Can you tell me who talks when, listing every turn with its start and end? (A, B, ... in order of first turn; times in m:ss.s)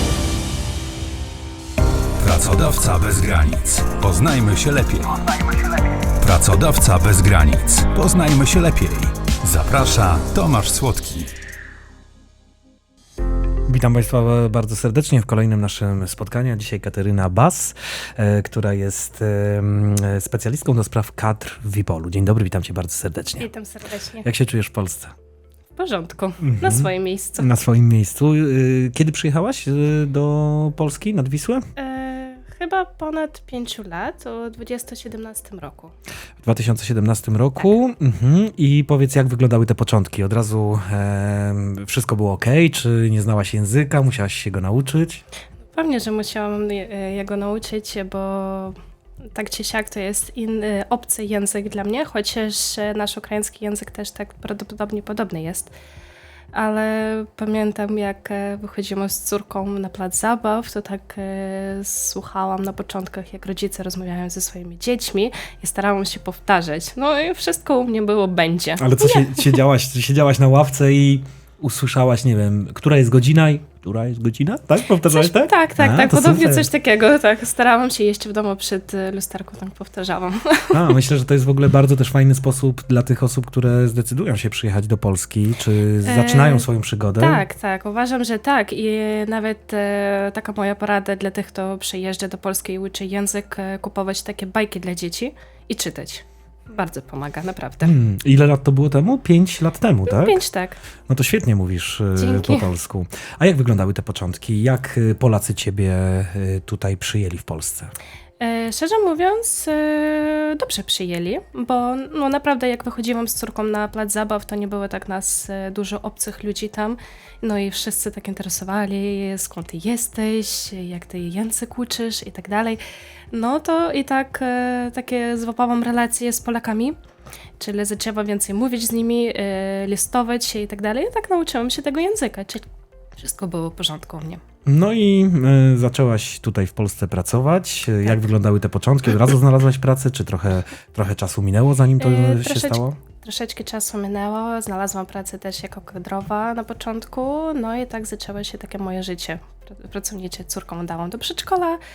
0:02.2-0:05.3 A
0:06.2-0:11.3 A
0:13.7-0:23.5 B
0:23.4-0:24.3 C
0:24.2-0:25.1 B
0:25.8-0:27.5 C
0:26.4-0:31.7 B
0:31.8-0:35.9 C
0:36.4-0:45.2 B
0:45.7-0:48.8 C
0:49.3-0:55.7 C
0:56.5-1:09.6 C
1:08.8-1:16.7 B
1:15.1-1:21.0 C
1:20.7-1:27.4 B
1:26.0-1:26.7 C
1:27.2-1:37.9 C
1:37.8-1:40.4 B
1:40.1-1:40.8 C
1:41.1-1:47.9 B
1:42.2-1:42.7 C
1:48.4-2:02.8 C
2:03.3-2:07.0 C
2:07.6-2:12.6 C
2:13.2-2:14.4 C
2:14.6-2:23.0 B
2:22.0-2:31.8 C